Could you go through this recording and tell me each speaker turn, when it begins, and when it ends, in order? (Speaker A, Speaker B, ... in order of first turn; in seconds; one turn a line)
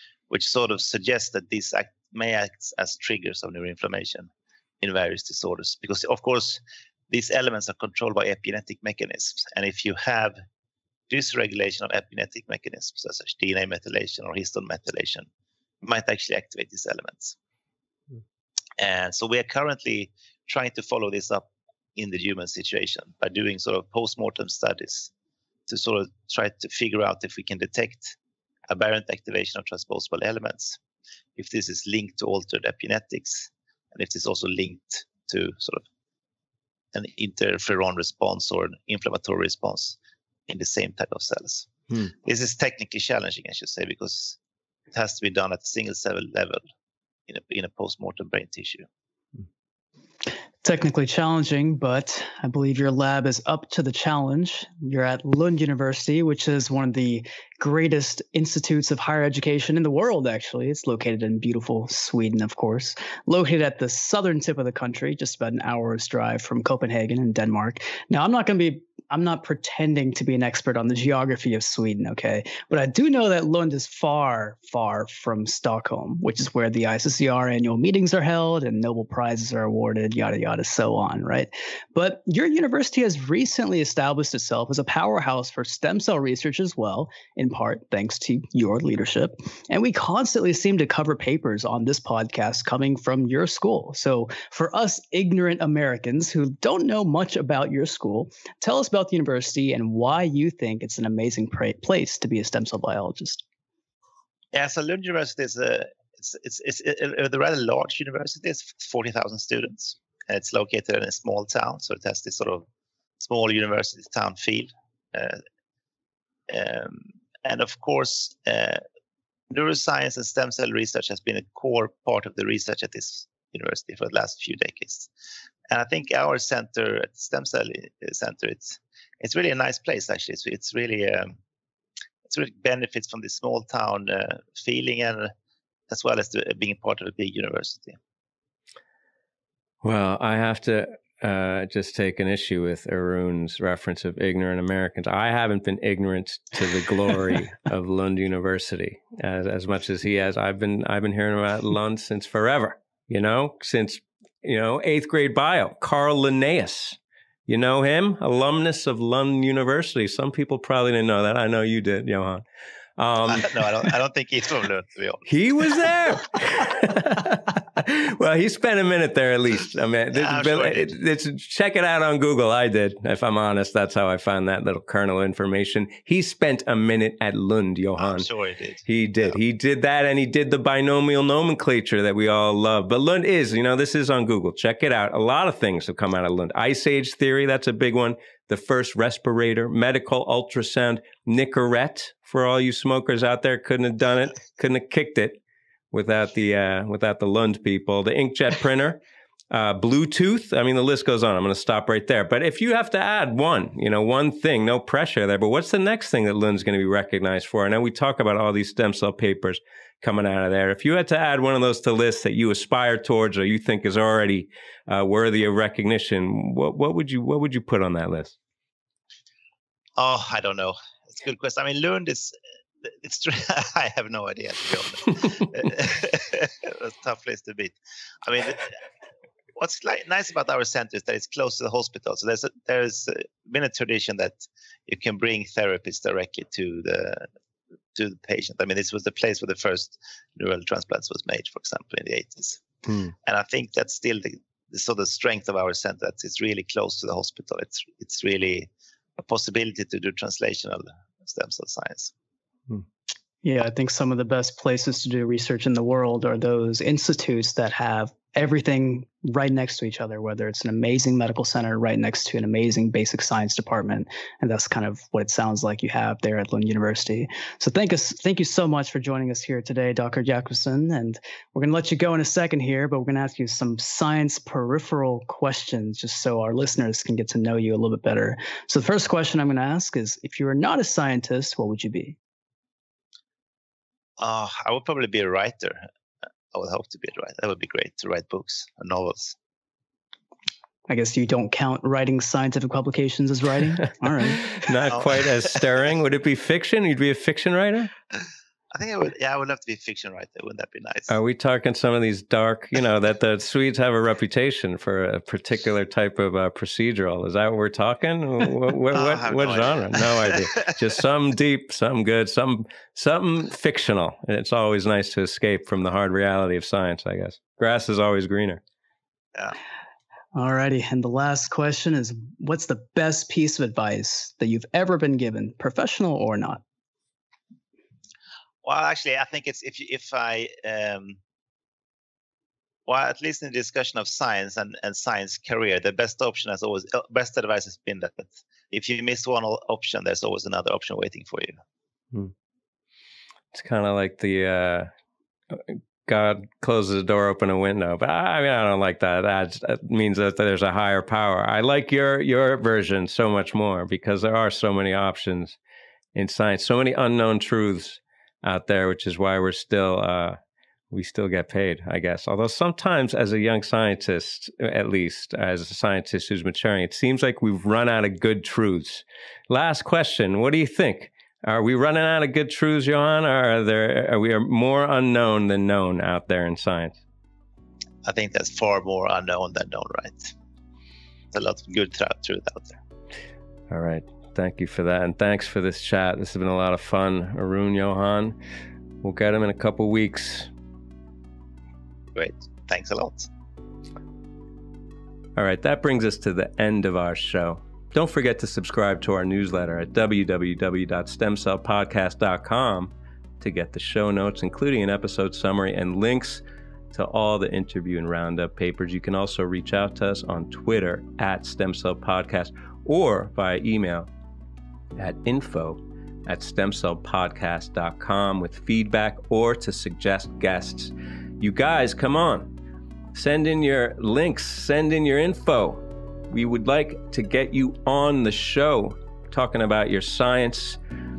Speaker A: 0.3-4.3
Speaker A: 4.8-10.3
Speaker A: 11.1-15.3
Speaker A: 15.8-17.4
Speaker A: 18.8-25.1
Speaker A: 25.7-28.1
Speaker A: 28.7-30.8
Speaker A: 31.4-35.9
Speaker A: 36.9-44.4
Speaker A: 44.9-46.6
Speaker A: 47.3-48.9
Speaker B: 50.6-103.4
Speaker A: 104.5-112.7
Speaker A: 113.2-115.4
Speaker A: 116.5-118.8
Speaker A: 119.5-125.1
Speaker A: 125.7-131.3
Speaker A: 132.3-135.3
Speaker A: 135.9-138.0
Speaker C: 139.8-162.4
Speaker C: 163.0-163.9
Speaker A: 163.3-166.0
Speaker C: 165.2-178.3
Speaker A: 170.1-170.9
Speaker A: 178.0-179.4
Speaker C: 178.8-195.4
Speaker C: 195.9-199.0
Speaker C: 199.5-218.3
Speaker A: 220.0-228.8
Speaker A: 229.6-237.3
Speaker A: 237.9-242.6
Speaker C: 242.9-243.1
Speaker A: 243.2-252.1
Speaker B: 253.4-282.2
Speaker A: 284.2-285.9
Speaker A: 286.5-289.4
Speaker B: 290.9-294.7
Speaker C: 294.4-297.9
Speaker A: 294.9-295.6
Speaker A: 298.7-301.1
Speaker C: 301.1-318.6
Speaker A: 308.9-310.7
Speaker B: 320.3-326.6
Speaker A: 328.6-331.2
Speaker A: 332.9-341.6
Speaker C: 343.5-344.9
Speaker C: 345.5-355.6
Speaker C: 356.1-360.4
Speaker C: 360.9-377.0
Speaker A: 378.0-380.3
Speaker A: 381.3-382.8
Speaker C: 383.7-388.3
Speaker C: 389.0-390.5
Speaker A: 392.1-393.3
Speaker C: 395.4-414.1
Speaker C: 414.9-422.5
Speaker C: 423.1-430.8